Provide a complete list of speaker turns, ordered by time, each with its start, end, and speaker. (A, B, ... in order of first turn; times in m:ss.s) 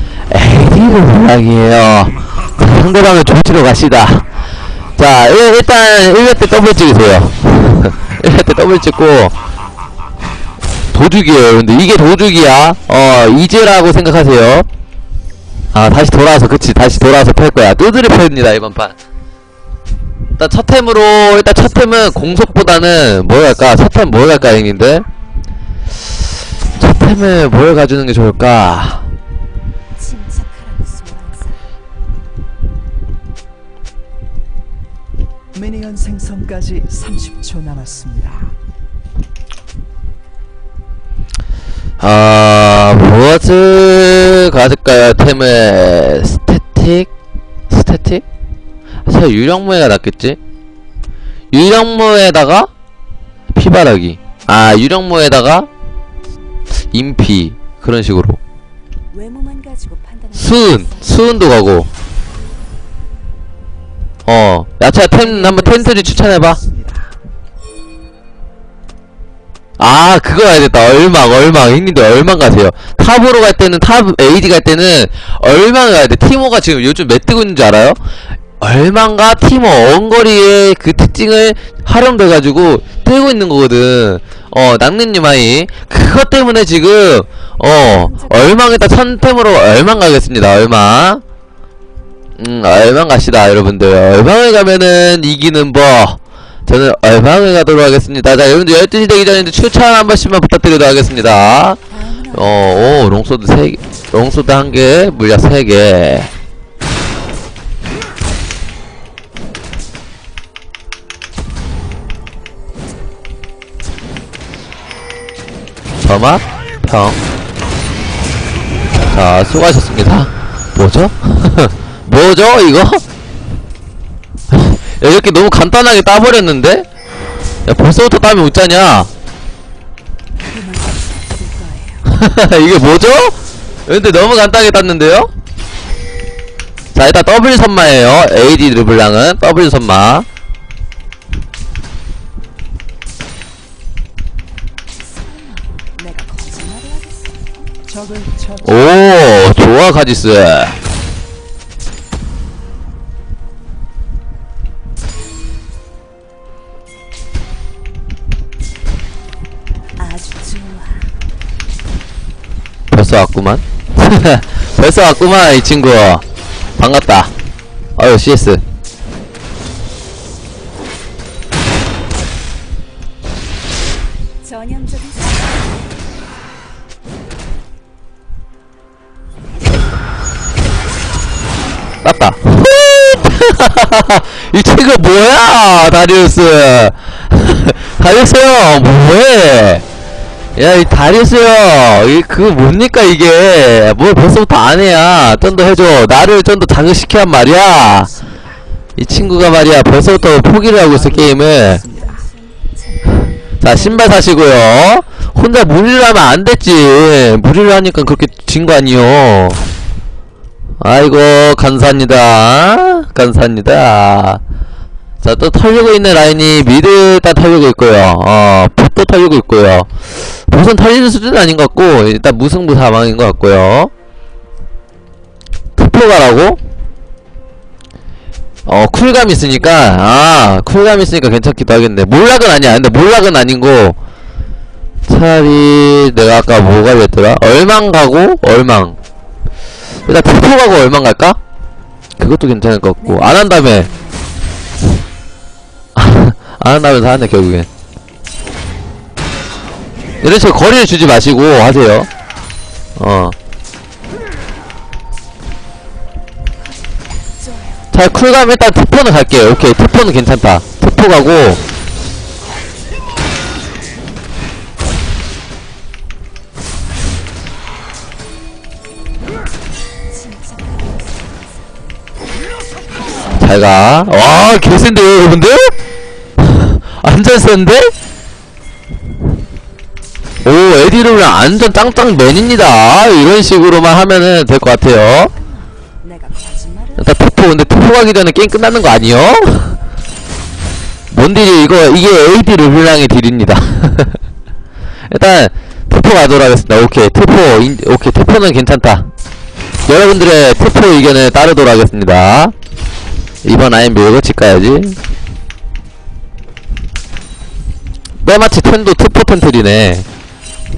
0:00.3-0:04.2 A
0:05.0-0:09.3 A
0:10.9-0:14.7 A
0:15.7-0:18.9 A
0:20.4-0:25.1 A
0:21.6-0:23.0 B
0:26.8-0:29.1 A
0:30.0-0:31.6 C
0:35.5-0:38.5 B
0:42.0-0:47.1 A
0:47.7-0:48.2 A
0:49.1-0:50.4 A
0:51.5-0:52.7 A
0:53.5-0:55.7 A
0:56.9-0:58.4 A
0:59.1-1:01.9 C
1:00.3-1:01.9 A
1:04.2-1:06.6 A
1:05.2-1:07.2 B
1:09.8-1:18.0 A
1:18.6-1:31.2 A
1:27.6-1:28.8 C
1:32.4-1:41.8 A
1:41.9-1:42.9 C
1:42.3-1:46.3 A
1:56.0-1:57.2 A
1:59.1-2:03.0 A
2:04.5-2:06.8 A
2:07.6-2:09.1 A
2:10.4-2:12.1 C
2:12.0-2:15.3 A
2:16.9-2:20.2 A
2:24.9-2:27.7 C
2:27.8-2:29.0 B
2:28.6-2:30.8 A
2:40.0-2:41.2 C
2:42.9-2:46.2 A
2:46.8-2:47.3 A
2:48.0-2:48.6 A
2:54.4-2:56.0 C
3:02.0-3:09.8 A
3:10.6-3:18.1 A
3:17.9-3:18.6 B
3:19.0-3:21.8 A
3:20.8-3:22.3 B
3:21.8-3:23.7 C
3:23.6-3:29.6 A
3:23.7-3:24.1 B
3:30.8-3:34.4 A
3:35.2-3:39.9 A
3:40.4-3:43.9 A
3:45.8-3:46.6 A
3:48.6-3:54.0 A
3:55.1-3:59.0 A
4:00.0-4:01.4 A
4:02.2-4:03.9 A
4:03.0-4:04.6 C
4:05.9-4:07.7 A
4:10.2-4:12.1 A
4:13.0-4:13.4 A
4:16.5-4:17.9 C
4:17.9-4:21.6 A
4:30.0-4:32.1 C
4:33.4-4:35.8 A
4:36.4-4:37.9 A
4:40.4-4:45.3 A
4:45.3-4:47.3 C
4:47.0-4:49.8 A
4:51.1-4:54.2 A
4:55.1-4:59.1 A
4:59.9-5:02.5 A
5:03.4-5:05.0 A
5:08.2-5:10.0 A